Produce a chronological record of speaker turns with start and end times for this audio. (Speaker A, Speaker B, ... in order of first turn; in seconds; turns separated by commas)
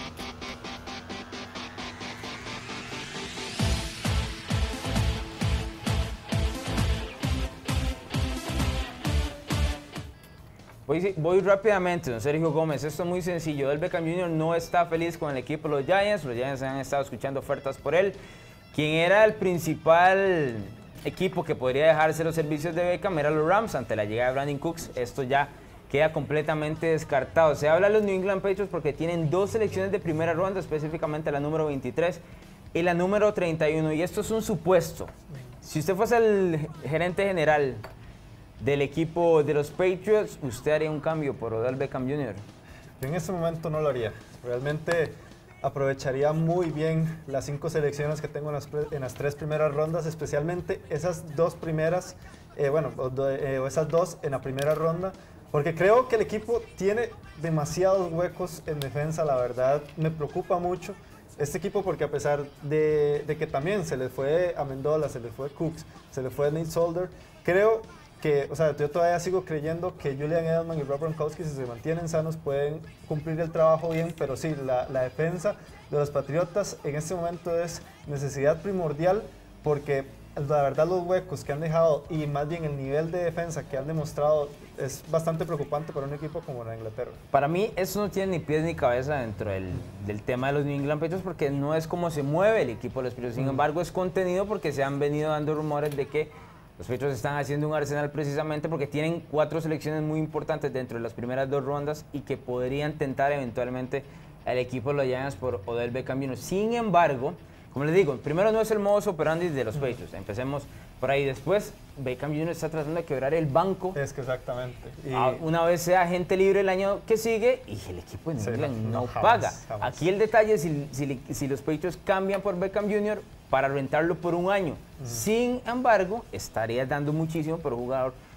Speaker A: 10.9-18.2, Speaker A: 18.7-32.2, Speaker A: 32.7-35.1, Speaker A: 35.6-37.8, Speaker A: 38.6-42.4, Speaker B: 43.0-87.2, Speaker A: 87.3-114.0, Speaker B: 93.4-93.6, Speaker B: 114.0-115.4, Speaker A: 115.1-128.2, Speaker B: 118.4-120.0, Speaker B: 125.0-125.2